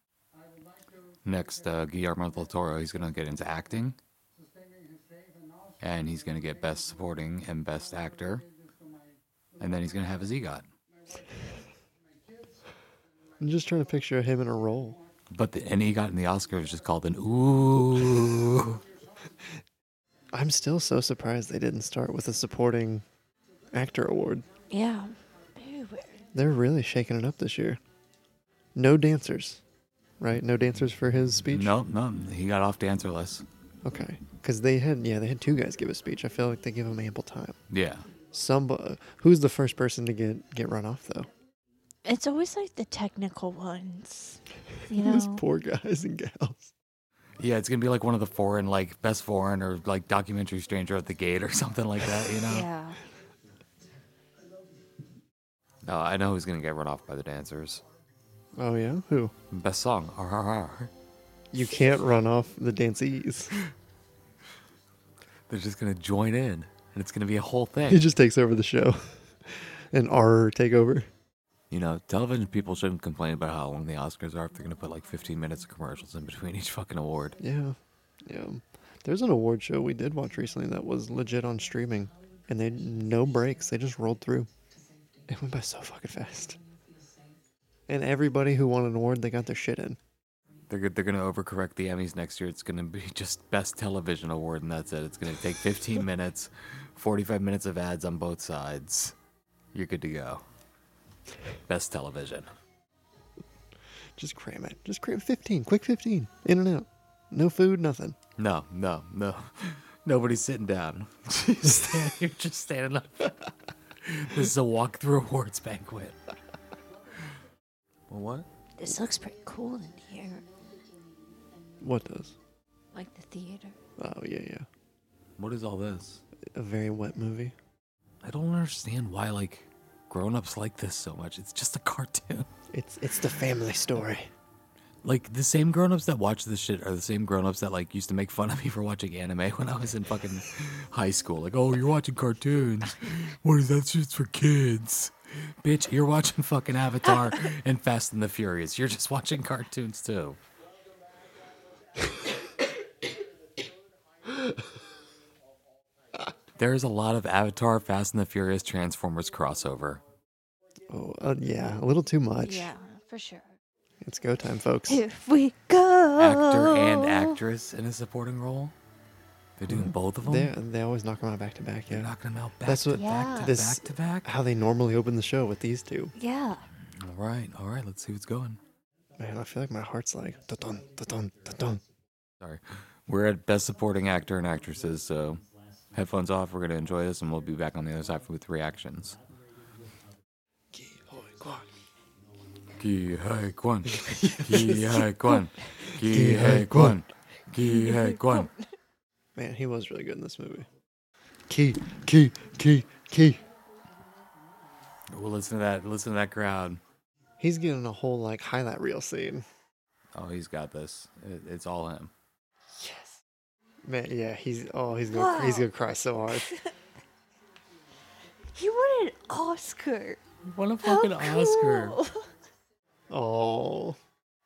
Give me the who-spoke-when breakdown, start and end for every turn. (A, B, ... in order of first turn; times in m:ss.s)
0:01.2-0:04.0 A
0:05.8-0:08.4 A
0:09.6-0:10.7 A
0:13.4-0:15.0 B
0:15.3-0:18.8 A
0:20.3-0:23.0 B
0:23.7-0:24.5 B
0:24.7-0:26.2 C
0:26.3-0:27.8 B
0:28.8-0:29.6 B
0:30.2-0:31.7 B
0:31.5-0:33.4 A
0:33.8-0:37.6 B
0:37.7-0:38.1 A
0:38.3-0:41.3 B
0:42.0-0:45.4 C
0:44.9-0:46.7 B
0:47.4-0:52.7 A
0:52.5-0:53.0 C
0:55.8-0:57.8 A
0:58.6-0:59.3 B
0:59.5-1:00.9 A
1:01.5-1:03.6 B
1:05.5-1:08.0 A
1:07.9-1:11.1 B
1:11.7-1:17.4 A
1:17.4-1:24.5 B
1:25.3-1:26.6 B
1:27.9-1:30.0 B
1:30.7-1:39.2 A
1:39.7-1:40.4 A
1:41.6-1:42.5 A
1:44.2-1:48.2 B
1:48.4-1:53.5 A
1:54.0-1:56.2 A
1:58.1-1:58.5 A
1:58.8-2:00.4 C
2:01.8-2:02.4 B
2:02.9-2:03.8 C
2:04.0-2:04.7 B
2:05.4-2:06.2 A
2:06.5-2:07.6 B
2:08.2-2:12.5 A
2:12.7-2:14.3 B
2:15.0-2:30.4 A
2:36.6-2:40.0 A
2:40.9-2:42.7 B
2:42.4-2:43.5 C
2:44.0-2:45.0 B
2:44.9-2:47.4 C
2:46.2-2:48.8 A
2:49.6-2:50.5 A
2:49.7-2:52.1 B
2:51.9-2:54.3 A
2:52.6-2:56.1 B
2:53.0-2:53.5 C
2:56.2-2:56.7 C
2:57.0-2:58.6 A
2:59.2-3:01.8 B
3:02.4-3:05.4 A
3:05.9-3:09.2 A
3:10.7-3:11.7 B
3:12.8-3:18.5 A
3:13.9-3:15.4 B
3:15.9-3:17.0 B
3:17.6-3:18.7 C
3:19.4-3:20.7 B
3:21.5-3:23.4 B
3:25.1-3:26.8 A
3:27.4-3:29.4 B
3:30.2-3:32.1 A
3:32.7-3:33.2 B
3:33.8-3:36.5 B
3:35.1-3:35.7 C
3:36.3-3:36.7 C
3:38.6-3:40.2 C
3:40.4-3:42.0 A
3:40.8-3:42.3 C
3:43.1-3:44.0 B